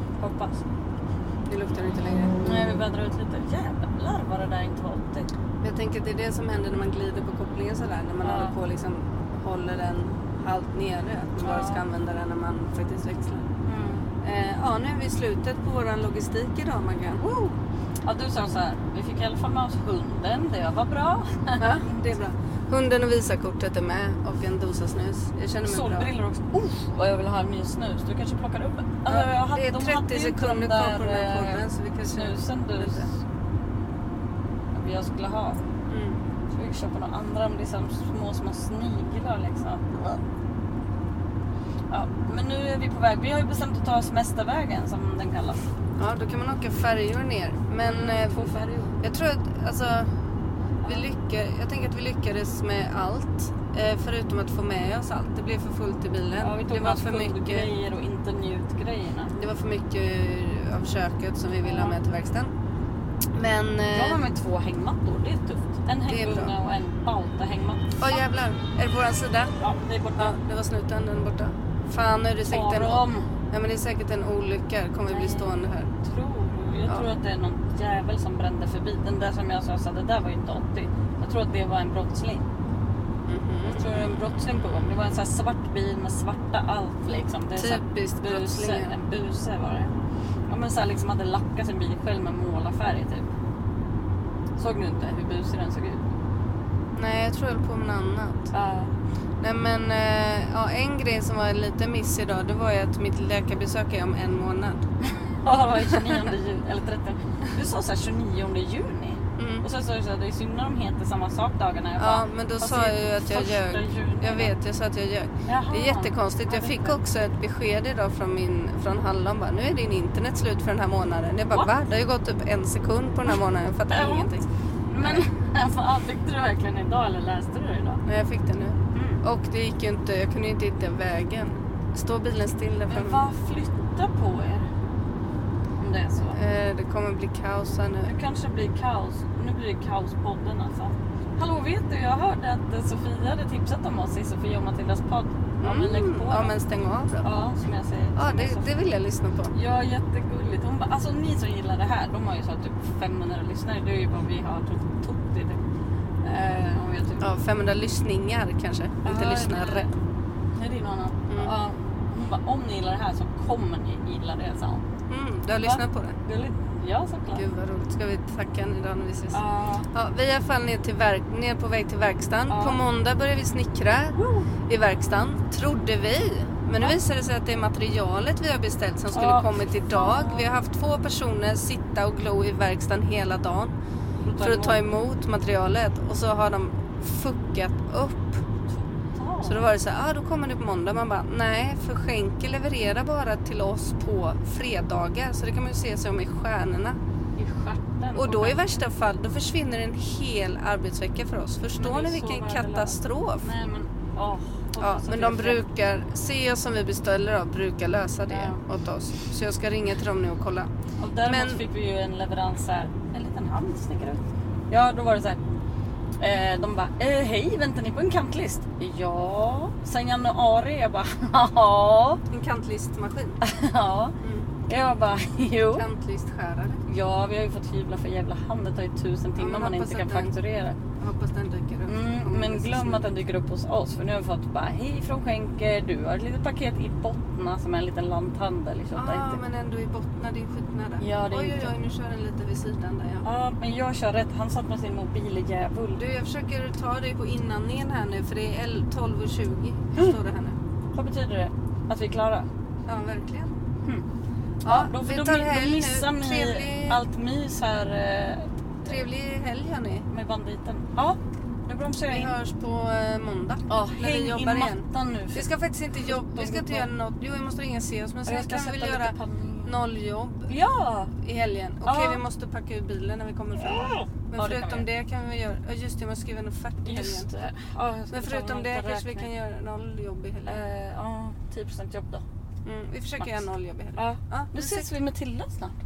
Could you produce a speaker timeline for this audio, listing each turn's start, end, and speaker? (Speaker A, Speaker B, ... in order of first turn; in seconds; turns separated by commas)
Speaker A: 0.2-0.6, Speaker B: 1.5-2.5, Speaker A: 2.4-5.3, Speaker B: 5.6-13.5, Speaker A: 8.2-8.5, Speaker A: 11.4-11.8, Speaker A: 13.6-14.1, Speaker B: 14.2-17.6, Speaker A: 18.0-21.9, Speaker B: 21.6-26.1, Speaker A: 25.6-33.2, Speaker B: 29.1-33.1, Speaker A: 34.7-35.6, Speaker B: 35.9-36.2, Speaker A: 36.5-40.2, Speaker A: 41.9-45.6, Speaker B: 46.0-50.1, Speaker A: 47.8-48.9, Speaker A: 50.8-51.1, Speaker B: 50.8-57.7, Speaker A: 56.4-59.3, Speaker B: 59.3-62.5, Speaker A: 61.6-62.0, Speaker B: 63.4-64.2, Speaker A: 63.9-68.0, Speaker B: 66.1-66.5, Speaker B: 68.0-69.5, Speaker A: 69.6-70.4, Speaker B: 70.2-75.9, Speaker A: 72.4-73.3, Speaker A: 75.1-82.4, Speaker B: 83.3-84.1, Speaker A: 83.7-89.9, Speaker B: 87.6-89.0, Speaker A: 90.5-93.3, Speaker A: 94.6-96.1, Speaker B: 96.9-98.5, Speaker A: 98.5-98.9, Speaker B: 99.4-104.9, Speaker A: 105.0-114.5, Speaker B: 105.8-106.2, Speaker B: 109.4-109.7, Speaker B: 112.0-124.5, Speaker A: 115.5-117.0, Speaker A: 123.9-124.3, Speaker A: 124.9-128.0, Speaker B: 125.0-125.2, Speaker B: 128.1-133.3, Speaker A: 128.9-129.2, Speaker A: 132.9-134.7, Speaker A: 135.8-136.4, Speaker B: 136.3-138.1, Speaker A: 138.1-146.6, Speaker B: 145.6-147.5, Speaker A: 147.2-148.7, Speaker B: 148.2-149.5, Speaker A: 149.5-155.6, Speaker A: 156.2-157.3, Speaker B: 157.2-159.9, Speaker A: 159.0-159.9, Speaker A: 160.6-164.8, Speaker B: 161.3-161.5, Speaker B: 165.1-166.2, Speaker A: 165.6-167.4, Speaker B: 167.3-169.4, Speaker A: 169.3-169.9, Speaker B: 169.9-183.7, Speaker A: 172.5-172.8, Speaker A: 174.2-174.5, Speaker A: 179.1-180.5, Speaker A: 184.2-184.8, Speaker B: 184.4-188.4, Speaker A: 188.7-189.7, Speaker B: 189.4-197.0, Speaker A: 197.4-198.6, Speaker B: 198.2-203.5, Speaker A: 201.8-205.6, Speaker B: 204.8-210.7, Speaker A: 208.3-208.6, Speaker A: 211.0-215.4, Speaker B: 211.2-211.6, Speaker A: 216.2-222.2, Speaker B: 222.3-223.4, Speaker A: 223.4-224.2, Speaker B: 224.2-224.5, Speaker A: 224.7-225.8, Speaker B: 225.7-226.8, Speaker A: 226.9-230.8, Speaker B: 229.4-230.3, Speaker B: 231.0-233.1, Speaker A: 231.9-239.4, Speaker B: 238.9-243.2, Speaker A: 241.0-241.7, Speaker A: 243.2-246.0, Speaker B: 246.0-250.6, Speaker A: 250.9-252.5, Speaker B: 252.9-253.5, Speaker B: 254.6-257.0, Speaker A: 254.7-259.0, Speaker B: 258.9-260.1, Speaker A: 260.1-262.3, Speaker B: 262.1-270.5, Speaker A: 263.7-265.5, Speaker A: 266.0-266.9, Speaker A: 268.2-269.7, Speaker A: 270.5-271.1, Speaker B: 271.2-277.3, Speaker A: 271.9-272.2, Speaker A: 273.6-274.9, Speaker A: 276.9-279.3, Speaker B: 278.1-280.6, Speaker A: 280.4-282.2, Speaker B: 282.6-284.9, Speaker A: 284.0-285.8